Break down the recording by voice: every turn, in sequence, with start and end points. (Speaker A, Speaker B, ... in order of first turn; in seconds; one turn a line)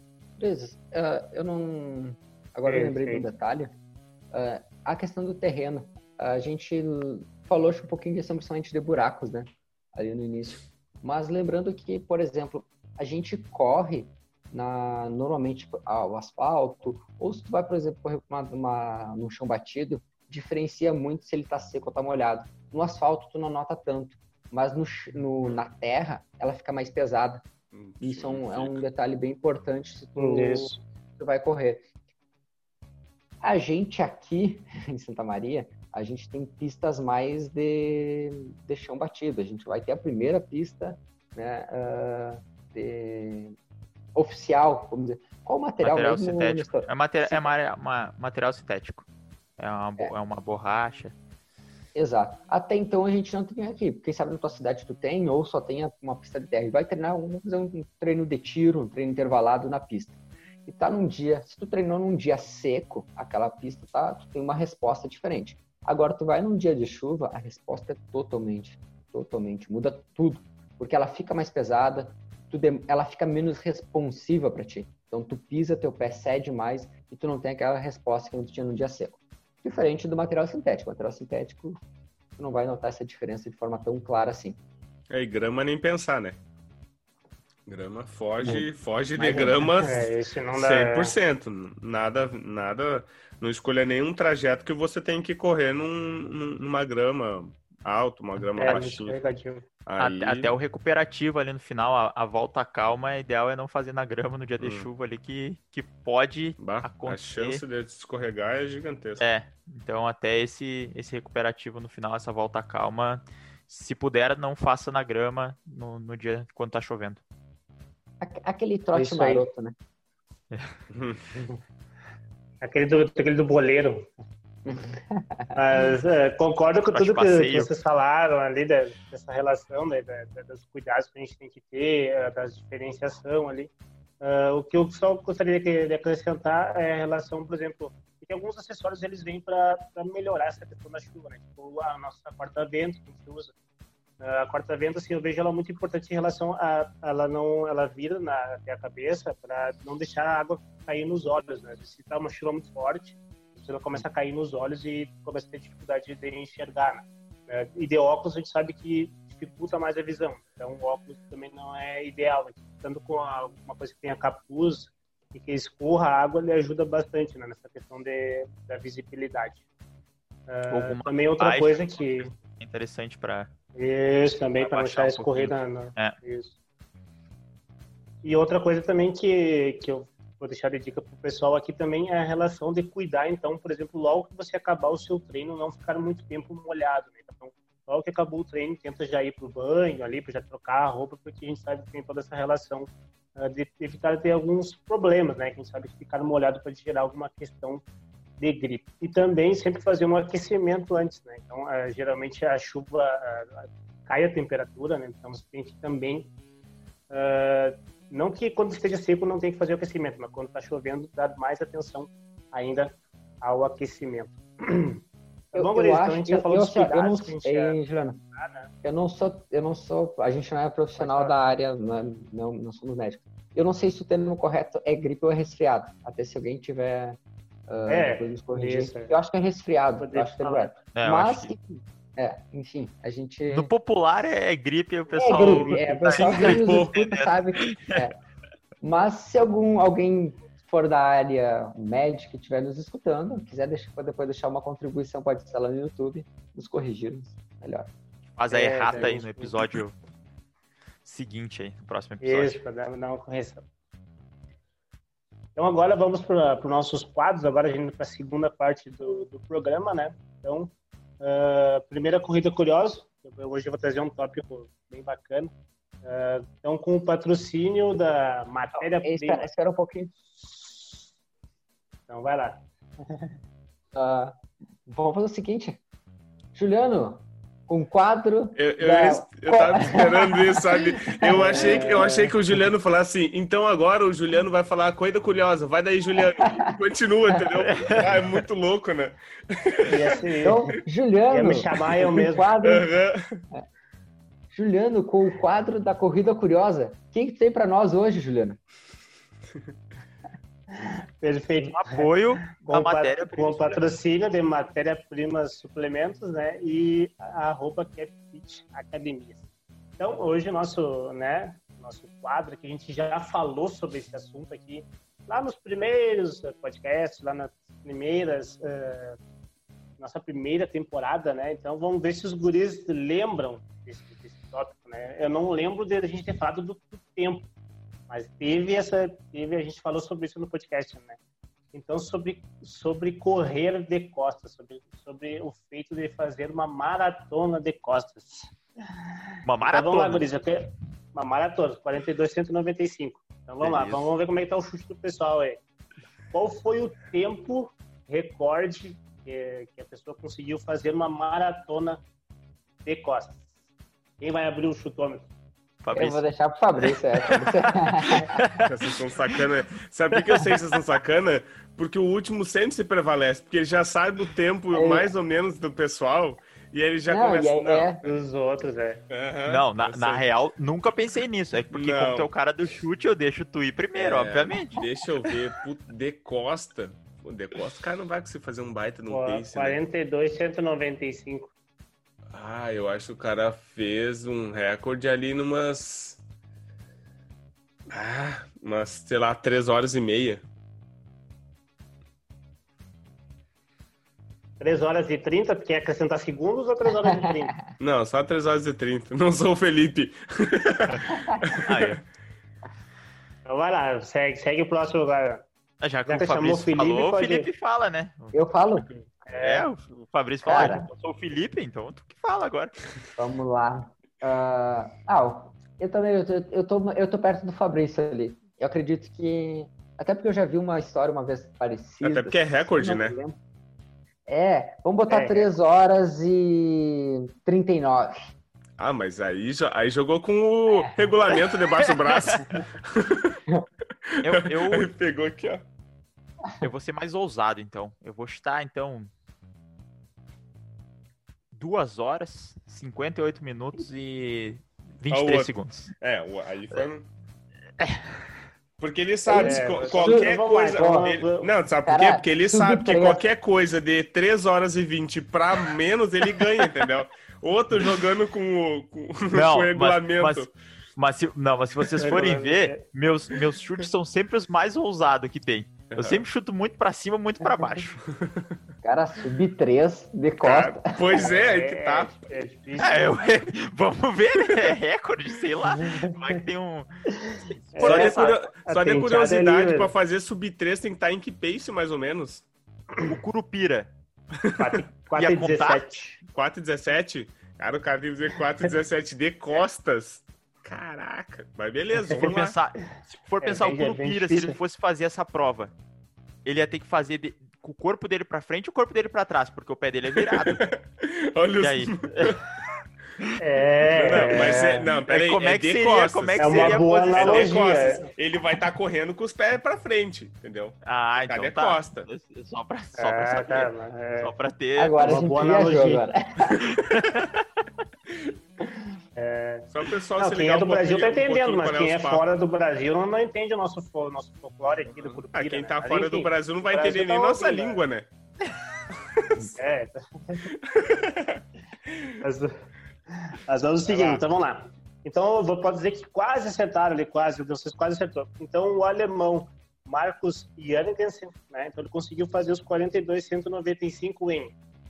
Speaker A: 0.4-3.7
Speaker B: 2.7-3.2
Speaker A: 4.3-27.4
Speaker C: 27.7-28.8
Speaker A: 28.0-31.9
Speaker B: 30.2-30.8
Speaker A: 33.4-43.5
Speaker A: 44.1-47.5
Speaker D: 45.8-49.1
Speaker D: 49.6-51.1
Speaker A: 51.9-81.8
Speaker A: 82.4-84.6
Speaker C: 85.1-86.4
Speaker C: 87.7-99.2
Speaker B: 89.2-91.2
Speaker B: 98.6-99.7
Speaker C: 99.9-100.5
Speaker D: 100.0-107.6
Speaker C: 104.6-104.9
Speaker C: 106.6-109.2
Speaker D: 109.2-117.2
Speaker A: 118.2-119.8
Speaker B: 118.9-119.5
Speaker C: 120.9-121.2
Speaker B: 121.3-121.6
Speaker B: 122.6-124.1
Speaker A: 124.7-126.0
Speaker B: 125.6-143.5
Speaker D: 126.9-127.7
Speaker B: 144.2-169.7
Speaker B: 170.5-172.3
Speaker D: 170.7-173.5
Speaker B: 173.8-176.6
Speaker D: 174.6-176.2
Speaker B: 178.2-197.8
Speaker B: 198.4-206.3
Speaker B: 207.1-215.0
Speaker B: 215.5-217.8
Speaker A: 215.5-218.2
Speaker B: 218.3-218.7
Speaker A: 218.8-233.7
Speaker B: 221.0-221.3
Speaker B: 227.9-229.2
Speaker B: 230.0-230.8
Speaker D: 230.9-231.5
Speaker D: 233.5-238.0
Speaker A: 235.1-238.1
Speaker B: 235.3-236.5
Speaker A: 238.8-247.9
Speaker D: 248.3-250.0
Speaker B: 248.5-249.6
Speaker D: 251.1-252.6
Speaker B: 252.2-253.7
Speaker B: 255.6-265.5
Speaker B: 266.0-269.5
Speaker A: 268.8-270.1
Speaker B: 270.4-271.0
Speaker B: 272.1-273.4
Speaker A: 273.9-275.8
Speaker A: 276.6-282.1
Speaker C: 278.6-290.0
Speaker B: 281.4-282.3
Speaker A: 286.2-286.7
Speaker D: 287.6-288.0
Speaker B: 289.9-290.8
Speaker A: 290.4-292.9
Speaker B: 291.3-292.6
Speaker C: 292.6-293.4
Speaker A: 294.5-298.6
Speaker B: 300.7-309.4
Speaker D: 301.6-303.8
Speaker B: 310.0-319.2
Speaker B: 320.0-327.5
Speaker B: 328.1-331.2
Speaker B: 331.7-338.6
Speaker D: 339.4-340.2
Speaker B: 339.7-345.6
Speaker D: 343.6-344.0
Speaker B: 346.3-352.0
Speaker B: 352.9-353.4
Speaker B: 354.2-355.3
Speaker D: 355.8-356.2
Speaker A: 355.9-358.4
Speaker D: 356.8-358.7
Speaker C: 358.6-368.0
Speaker D: 360.2-360.6
Speaker A: 364.7-365.1
Speaker A: 367.1-368.0
Speaker B: 368.0-369.1
Speaker C: 369.1-370.2
Speaker D: 369.5-374.8
Speaker C: 371.7-372.3
Speaker C: 374.0-379.8
Speaker B: 379.1-381.5
Speaker C: 382.3-386.2
Speaker C: 387.9-390.5
Speaker B: 394.6-397.6
Speaker A: 397.1-397.6
Speaker C: 397.8-402.0
Speaker A: 401.2-401.4
Speaker D: 401.6-402.0
Speaker B: 403.4-405.5
Speaker D: 405.8-408.4
Speaker B: 406.1-407.5
Speaker A: 408.3-408.9
Speaker B: 408.9-409.7
Speaker D: 409.4-412.8
Speaker A: 410.4-410.9
Speaker A: 413.2-423.4
Speaker C: 422.0-423.2
Speaker A: 424.3-428.3
Speaker B: 425.1-425.5
Speaker C: 428.8-433.4
Speaker A: 430.7-431.1
Speaker D: 432.1-432.5
Speaker C: 434.2-435.6
Speaker D: 434.2-434.9
Speaker D: 436.6-439.1
Speaker D: 441.5-445.9
Speaker C: 445.1-447.1
Speaker C: 448.8-460.5
Speaker A: 449.3-451.0
Speaker B: 449.4-451.5
Speaker A: 451.9-453.2
Speaker D: 459.3-468.0
Speaker B: 462.0-462.9
Speaker C: 465.9-466.2
Speaker A: 468.8-471.1
Speaker C: 470.4-472.4
Speaker B: 471.1-473.1
Speaker D: 472.8-478.4
Speaker B: 475.7-476.4
Speaker B: 477.2-479.9
Speaker C: 477.8-482.5
Speaker D: 483.0-483.9
Speaker B: 484.6-486.2
Speaker D: 485.1-485.9
Speaker C: 486.3-492.6
Speaker D: 492.2-495.7
Speaker B: 493.4-494.6
Speaker D: 496.4-500.7
Speaker C: 500.3-502.4
Speaker D: 501.6-502.4
Speaker B: 503.4-504.9
Speaker C: 503.9-512.1
Speaker D: 504.1-507.6
Speaker B: 506.4-508.1
Speaker D: 510.9-515.2
Speaker B: 513.0-514.3
Speaker A: 514.8-516.7
Speaker B: 515.0-516.0
Speaker D: 516.6-517.4
Speaker B: 519.2-527.8
Speaker C: 519.7-522.3
Speaker C: 525.0-528.1
Speaker B: 529.5-530.5
Speaker C: 530.7-532.1
Speaker B: 532.2-532.5
Speaker B: 533.1-544.6
Speaker C: 533.8-534.2